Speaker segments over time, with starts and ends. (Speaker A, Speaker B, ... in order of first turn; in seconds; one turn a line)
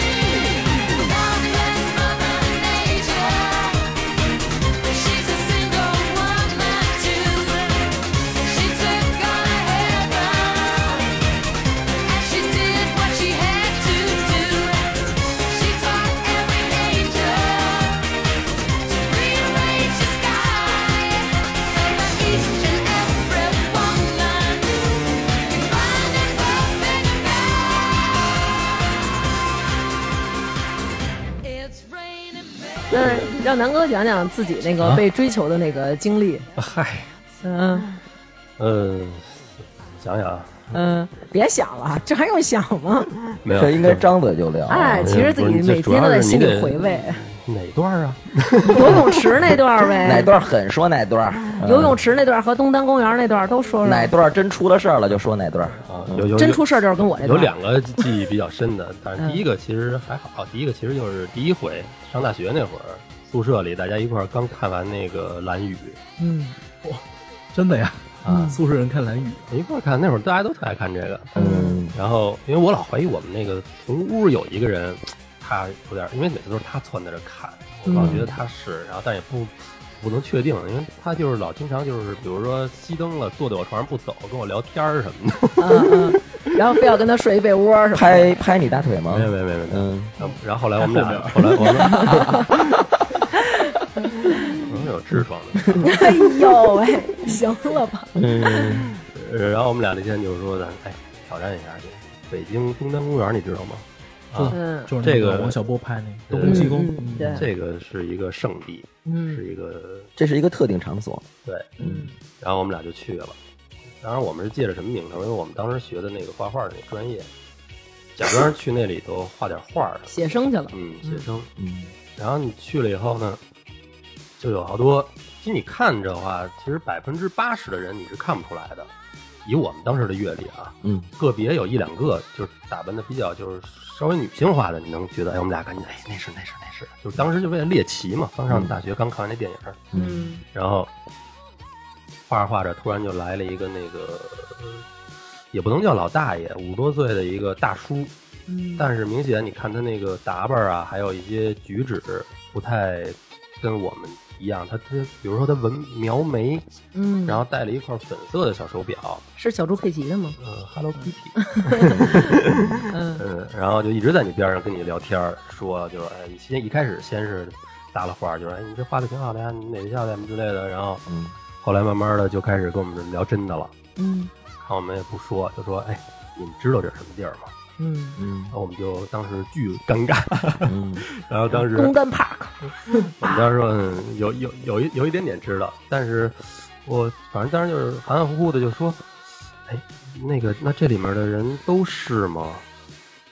Speaker A: 0.8-3.8
Speaker A: 4.8-11.1
Speaker A: 12.1-18.1
Speaker A: 18.9-28.2
Speaker A: 31.4-32.9
Speaker B: 32.9-36.5
Speaker C: 36.6-37.1
Speaker B: 37.4-37.9
Speaker C: 38.6-40.7
Speaker B: 40.7-43.1
Speaker C: 43.4-44.0
Speaker D: 43.5-45.3
Speaker B: 44.7-47.2
Speaker C: 44.7-49.3
Speaker B: 48.7-50.3
Speaker D: 50.0-52.0
Speaker B: 51.6-54.1
Speaker D: 53.8-56.3
Speaker C: 55.8-66.0
Speaker B: 56.4-57.5
Speaker B: 66.2-66.5
Speaker E: 66.8-69.5
Speaker C: 68.2-68.5
Speaker B: 68.3-68.6
Speaker C: 69.5-71.3
Speaker B: 71.3-71.8
Speaker D: 71.3-72.0
Speaker C: 71.9-86.2
Speaker B: 77.8-78.2
Speaker D: 78.0-78.3
Speaker B: 85.6-88.4
Speaker D: 87.9-90.2
Speaker C: 89.1-92.3
Speaker E: 90.2-92.6
Speaker B: 91.8-92.4
Speaker D: 91.9-92.7
Speaker B: 94.3-94.6
Speaker C: 94.5-96.0
Speaker B: 95.8-98.7
Speaker D: 98.2-98.9
Speaker C: 99.0-105.6
Speaker E: 104.3-107.5
Speaker B: 104.5-104.9
Speaker C: 106.3-110.1
Speaker B: 106.4-107.5
Speaker B: 109.1-109.4
Speaker D: 110.2-111.3
Speaker C: 111.5-111.8
Speaker B: 111.8-112.1
Speaker D: 111.8-112.1
Speaker C: 112.4-113.4
Speaker C: 114.0-117.3
Speaker C: 118.2-121.5
Speaker B: 120.1-121.3
Speaker D: 121.6-121.9
Speaker C: 122.2-123.4
Speaker C: 124.4-128.9
Speaker C: 129.4-139.8
Speaker D: 130.8-131.1
Speaker D: 138.5-138.8
Speaker D: 139.9-140.3
Speaker B: 139.9-140.4
Speaker C: 140.5-140.9
Speaker C: 142.3-144.8
Speaker C: 145.5-148.1
Speaker B: 148.5-148.9
Speaker C: 148.8-156.7
Speaker B: 156.9-157.4
Speaker C: 157.3-159.2
Speaker B: 159.4-160.4
Speaker C: 160.4-171.1
Speaker B: 161.1-162.2
Speaker D: 161.9-162.6
Speaker B: 162.9-163.2
Speaker D: 171.1-171.4
Speaker C: 171.6-173.7
Speaker B: 174.0-174.3
Speaker C: 174.6-177.5
Speaker B: 177.8-178.2
Speaker D: 178.2-178.6
Speaker C: 178.5-182.0
Speaker D: 180.7-181.1
Speaker B: 181.5-183.4
Speaker C: 182.7-189.1
Speaker C: 189.7-192.7